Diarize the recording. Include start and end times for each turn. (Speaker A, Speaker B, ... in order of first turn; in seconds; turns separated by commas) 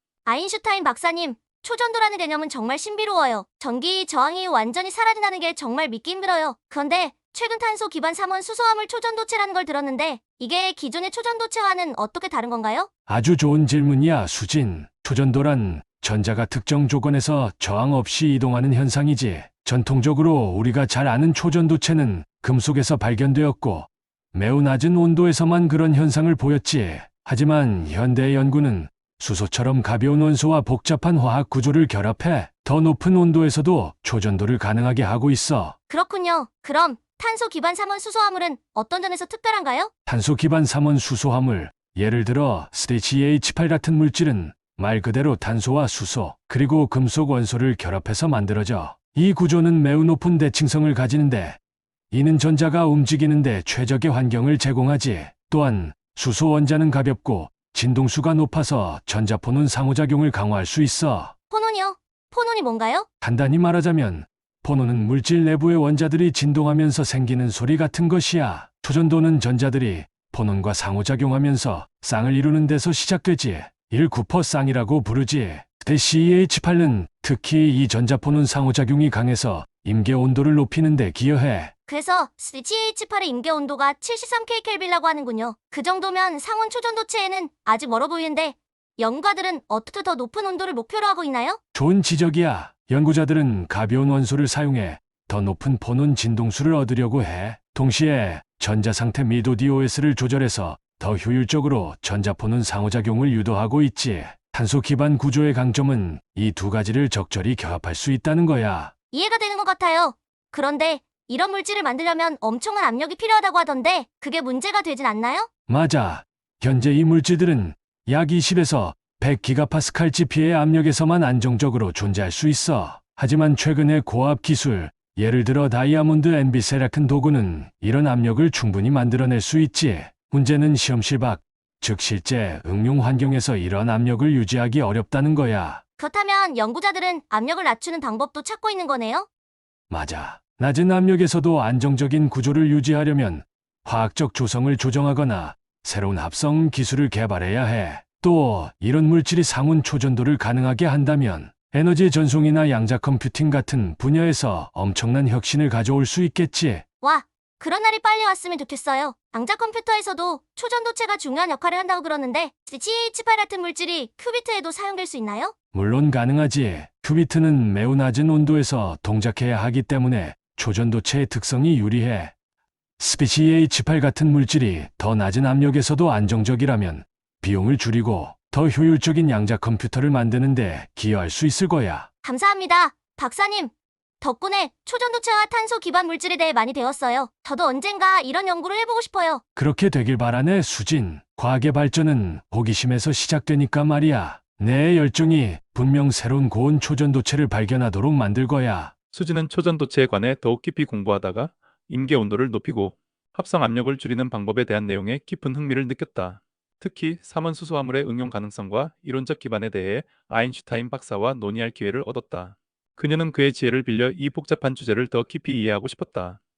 Speaker A: 0.2-12.9, Speaker B: 13.1-35.8, Speaker A: 35.9-39.9, Speaker B: 40.1-51.6, Speaker B: 52.1-61.3, Speaker A: 61.5-63.1, Speaker B: 63.2-81.7, Speaker A: 81.9-91.6, Speaker B: 91.7-108.9, Speaker A: 109.1-115.5, Speaker B: 115.7-135.8, Speaker A: 136.0-139.2, Speaker B: 139.9-156.8, Speaker A: 157.0-165.5, Speaker B: 165.7-172.3, Speaker B: 173.0-182.1, Speaker A: 182.2-189.4, Speaker B: 189.6-198.9, Speaker C: 199.1-216.4